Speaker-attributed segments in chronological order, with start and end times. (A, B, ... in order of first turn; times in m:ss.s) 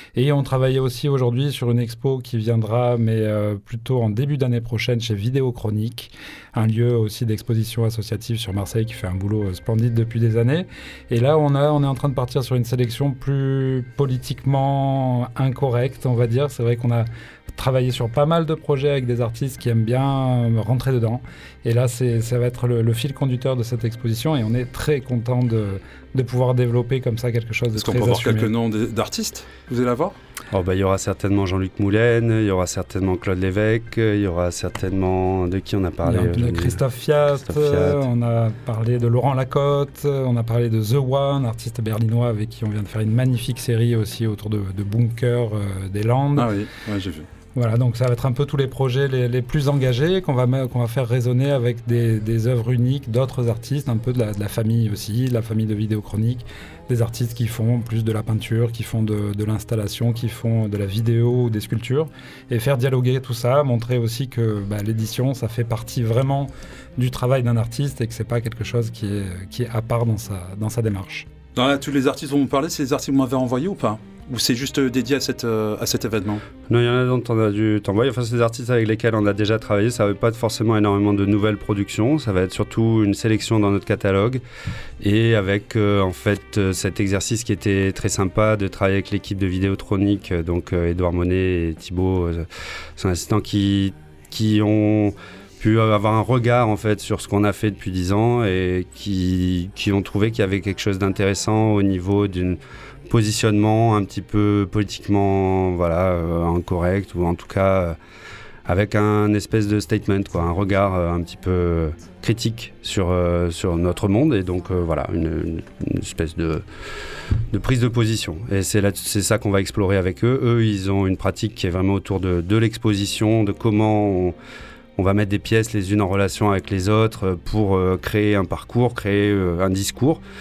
0:00.1-0:28.5 A
0:27.7-0:30.2 B
0:30.5-0:36.8 C
0:36.0-0:46.5 A
0:37.4-0:38.0 C
0:46.3-0:47.3 B
0:47.5-1:11.3 A
1:11.5-1:16.4 B
1:16.7-1:24.4 C
1:25.0-1:48.0 C
1:48.6-1:56.6 C
1:57.5-2:04.3 C
2:05.0-2:10.2 C